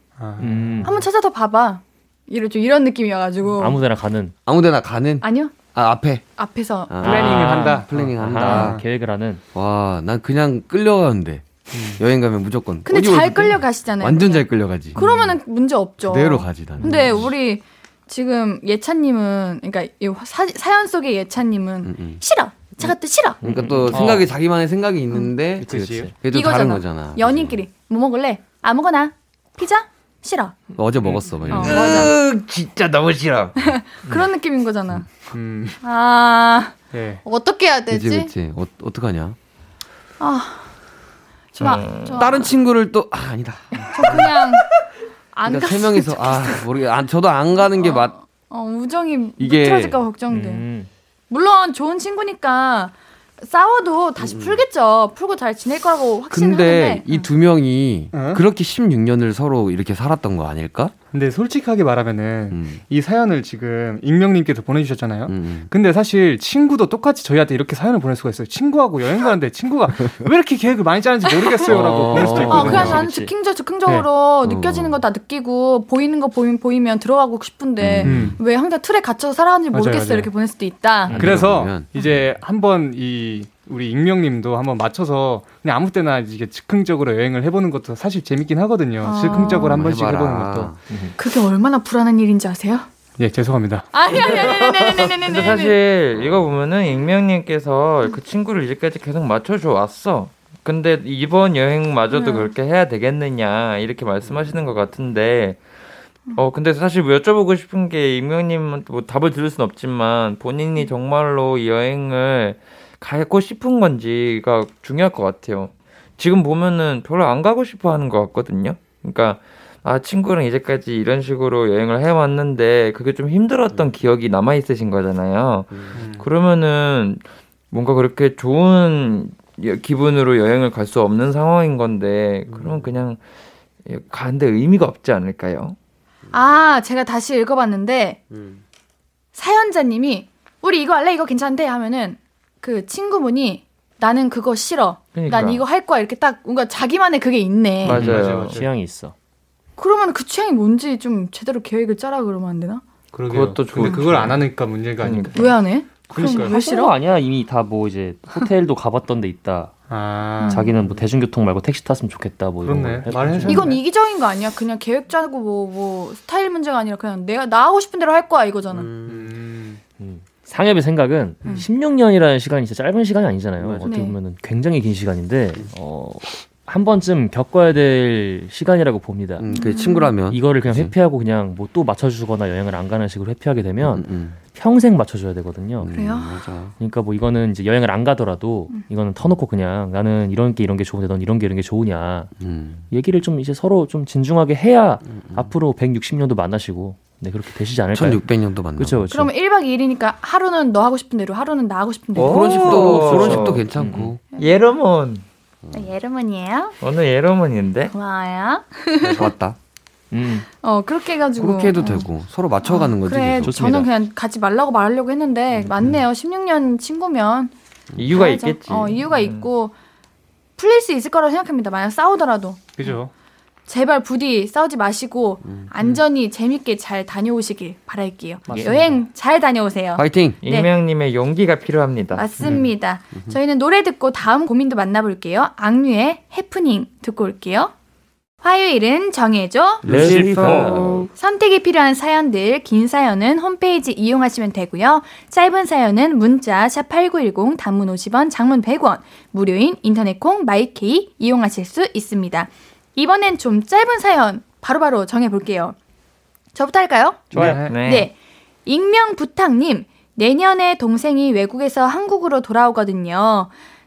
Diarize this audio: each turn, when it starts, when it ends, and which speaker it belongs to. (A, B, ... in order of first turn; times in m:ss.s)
0:00.2-0:00.9 A
0:00.4-0:01.0 B
0:00.8-0:03.8 C
0:03.5-0:04.3 B
0:04.4-0:06.2 D
0:05.2-0:05.5 C
0:06.4-0:06.9 C
0:06.9-0:08.8 D
0:07.0-0:09.4 B
0:07.0-0:08.8 A
0:09.5-0:15.4 D
0:11.7-0:12.0 A
0:12.8-0:23.4 C
0:16.0-0:17.3 D
0:16.9-0:17.2 B
0:21.8-0:22.2 D
0:22.8-0:27.6 D
0:23.4-0:24.3 B
0:23.9-0:24.3 A
0:25.6-0:26.1 A
0:25.6-0:26.1 B
0:26.3-0:30.6 C
0:30.7-0:32.1 D
0:31.0-0:31.8 A
0:31.6-0:33.7 E
0:31.6-0:32.1 C
0:33.6-0:35.2 C
0:35.3-0:35.8 A
0:35.8-0:38.3 C
0:36.9-0:37.2 A
0:37.9-0:39.4 D
0:40.2-0:40.7 C
0:41.5-0:42.5 C
0:41.6-0:42.4 E
0:42.1-0:44.3 D
0:43.7-0:44.7 C
0:45.3-0:46.6 C
0:45.4-0:48.1 D
0:47.6-0:50.6 C
0:49.4-0:50.0 D
0:50.3-0:50.9 B
0:51.3-0:57.3 C
0:54.2-0:54.6 D
0:56.3-1:00.9 D
0:58.1-0:58.4 A
1:01.1-1:12.9 A
1:02.5-1:02.8 D
1:05.3-1:05.7 D
1:11.6-1:13.0 D
1:11.7-1:13.3 B
1:12.4-1:21.2 C
1:14.4-1:15.0 D
1:17.8-1:18.4 D
1:18.0-1:18.4 A
1:19.7-1:20.3 A
1:21.1-1:21.6 B
1:21.1-1:21.9 D
1:21.2-1:30.7 A
1:29.0-1:29.8 C
1:29.2-1:30.8 D
1:30.9-1:31.2 B
1:31.2-1:32.9 C
1:33.2-1:33.9 A
1:33.9-1:35.8 C
1:34.0-1:45.6 E
1:42.1-1:42.5 C
1:46.3-2:13.2 E
2:05.7-2:06.0 D
2:05.9-2:06.3 A
2:12.5-2:12.8 D
2:13.8-2:15.8 E
2:16.3-2:18.2 C
2:18.3-2:18.6 D
2:19.3-2:28.1 C
2:25.1-2:25.6 E
2:27.8-2:28.6 E
2:27.9-2:29.1 B
2:27.9-2:28.7 A
2:29.8-2:32.8 C
2:33.1-2:35.5 A
2:33.2-2:34.4 E
2:35.0-2:35.5 E
2:35.4-2:36.9 C
2:36.1-2:36.5 A
2:36.2-2:39.8 B
2:39.9-2:40.7 A
2:40.4-2:40.7 C
2:40.4-2:43.8 B
2:40.8-2:41.0 D
2:42.6-2:43.8 A
2:43.4-2:48.9 C
2:48.7-2:49.5 D
2:49.1-2:49.8 A
2:50.0-3:05.9 B
2:53.6-2:54.0 D
2:53.8-2:54.2 C
2:59.4-3:00.9 D
2:59.5-3:00.1 C
3:03.8-3:04.4 D
3:05.8-3:06.8 D
3:05.9-3:06.4 C
3:06.8-3:12.3 B
3:12.4-3:12.9 D
3:12.9-3:19.3 B
3:15.0-3:15.5 D
3:17.9-3:19.1 D
3:19.1-3:23.0 C
3:22.1-3:23.7 E
3:22.2-3:24.2 D
3:23.1-3:24.1 B
3:24.3-3:25.3 E
3:25.6-3:25.9 D
3:25.7-3:26.8 C
3:26.8-3:27.9 E
3:27.9-3:29.3 C
3:29.0-3:29.6 D
3:30.1-3:30.5 B
3:30.6-3:32.1 C
3:31.4-3:33.9 D
3:32.6-3:37.5 C
3:33.4-3:33.9 B
3:35.6-3:36.0 D
3:37.9-3:38.2 D
3:38.0-3:39.5 E
3:38.1-3:39.7 C
3:40.6-3:43.0 C
3:42.8-3:43.1 A
3:43.7-3:50.7 C
3:45.4-3:45.7 D
3:48.5-3:49.0 A
3:50.0-3:50.4 D
3:50.4-3:52.3 E
3:52.1-3:57.7 C
3:52.4-3:52.7 A
3:58.4-3:59.8 C
3:59.8-4:01.0 E
3:59.8-4:01.1 D
3:59.9-4:01.0 A
4:01.1-4:15.8 C
4:16.5-4:18.1 C
4:17.3-4:18.1 E
4:17.3-4:17.8 A
4:18.6-4:23.5 C